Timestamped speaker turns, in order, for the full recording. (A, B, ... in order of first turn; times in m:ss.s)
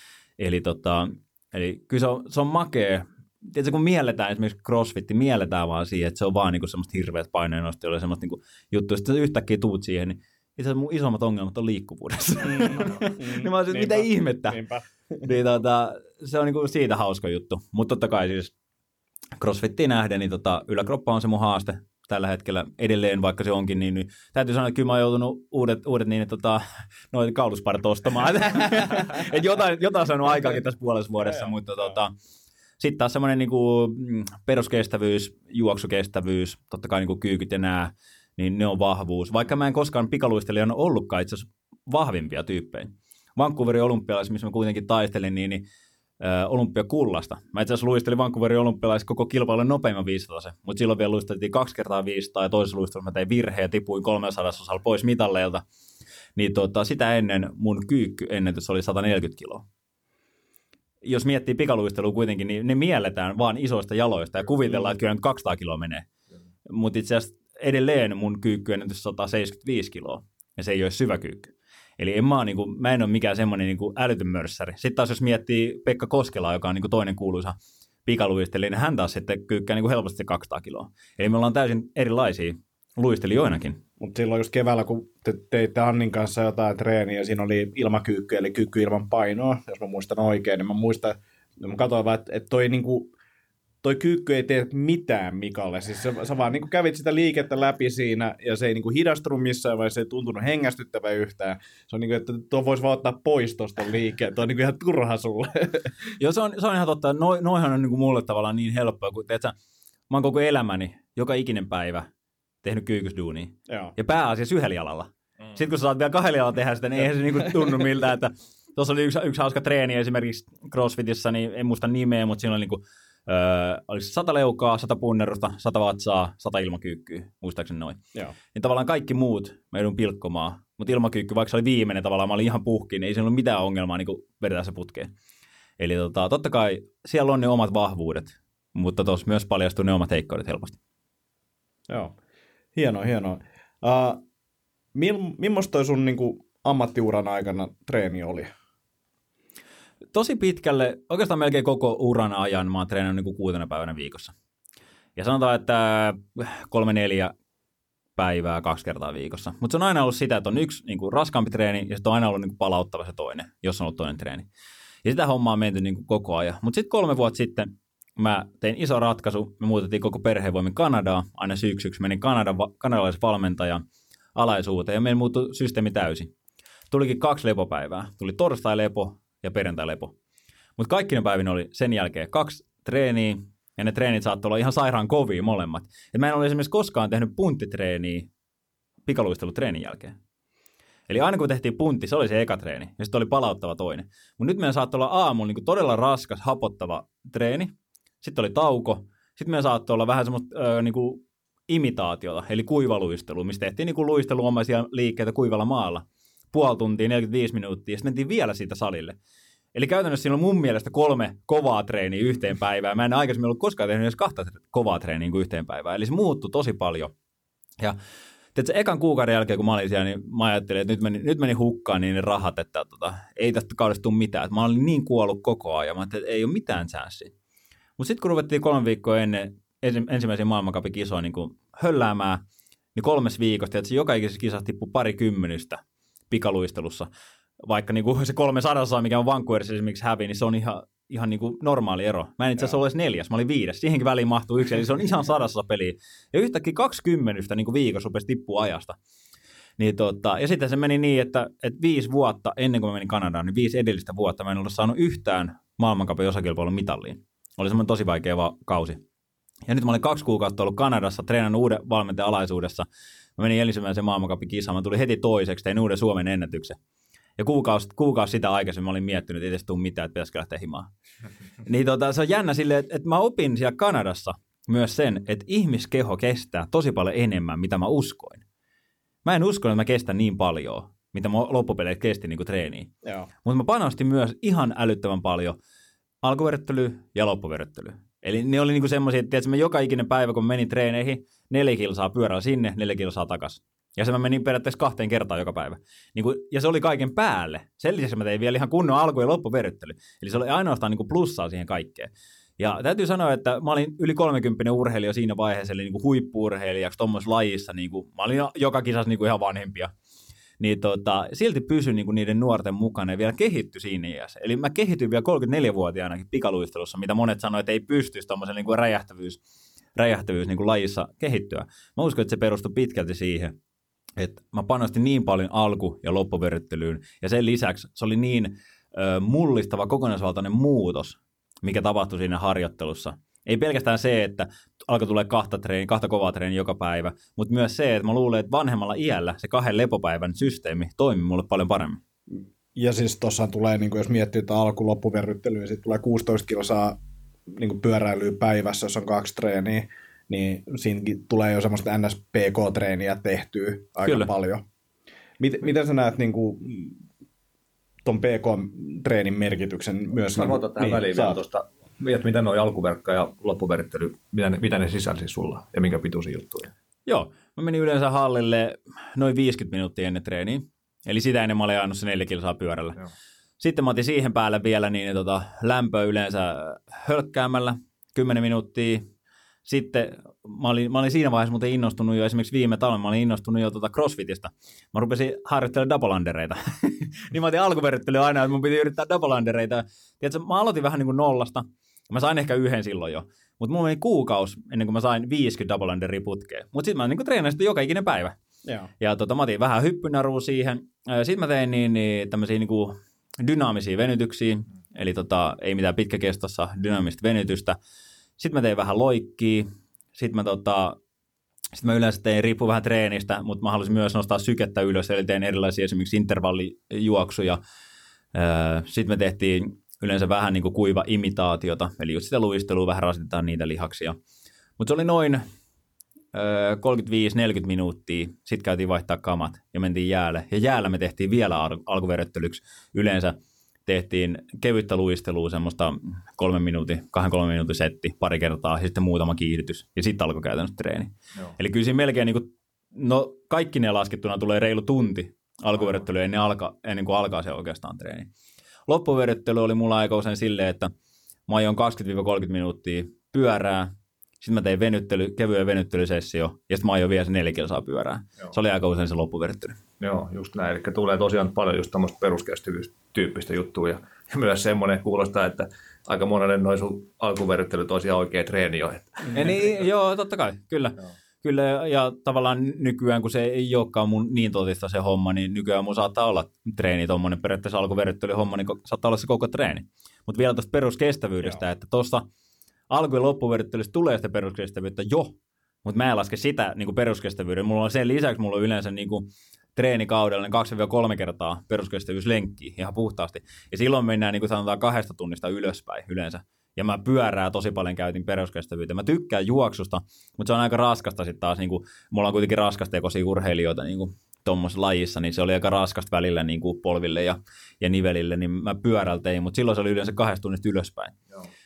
0:00.4-0:14.6 A
0:12.4-0:15.3 B
0:15.2-0:18.5 A
0:19.4-0:32.1 A
0:32.8-0:45.6 A
0:46.2-0:55.6 A
0:56.4-0:59.6 A
1:01.0-1:06.1 A
1:06.6-1:17.5 A
1:18.0-1:23.8 A
1:24.0-1:33.1 B
1:33.8-1:45.9 B
1:46.2-1:49.5 A
1:50.1-1:52.1 A
1:52.6-2:15.1 A
1:53.7-1:53.9 B
2:15.8-2:20.8 A
2:21.9-2:22.1 B
2:22.7-2:24.2 B
2:24.9-2:28.5 B
2:30.1-2:34.3 A
2:35.2-2:37.3 A
2:38.2-2:44.5 A
2:45.0-2:53.8 A
2:54.3-2:56.3 A
2:56.9-3:00.1 A
3:00.8-3:08.3 A
3:09.0-3:10.2 A
3:11.1-3:29.2 A
3:29.7-3:37.1 A
3:38.5-3:47.3 A
3:48.0-3:52.4 A
3:52.9-3:57.1 A
3:57.6-4:09.0 A
4:09.8-4:19.0 A
4:19.7-4:26.8 A
4:27.4-4:30.9 A
4:31.6-4:38.4 A
4:39.2-4:42.9 A
4:43.0-4:43.3 B
4:43.4-4:45.6 A
4:46.2-5:09.9 A
5:10.6-5:19.4 A
5:20.0-5:23.6 A
5:24.2-5:42.0 A
5:42.7-5:47.0 B
5:47.5-5:54.6 B
5:54.0-5:54.3 A
5:55.4-5:57.0 B
5:58.0-6:01.4 B
6:00.3-6:06.7 C
6:07.0-6:13.0 A
6:13.6-6:19.1 A
6:19.6-6:38.4 A
6:38.6-6:38.9 B
6:39.0-6:47.8 A
6:48.4-6:51.0 A
6:51.7-6:57.6 A
6:58.3-7:04.2 A
7:04.8-7:05.4 A
7:06.3-7:28.3 A
7:28.9-7:30.9 A
7:31.5-7:39.8 A
7:40.0-7:49.5 C
7:49.3-8:02.2 A
8:02.9-8:31.2 A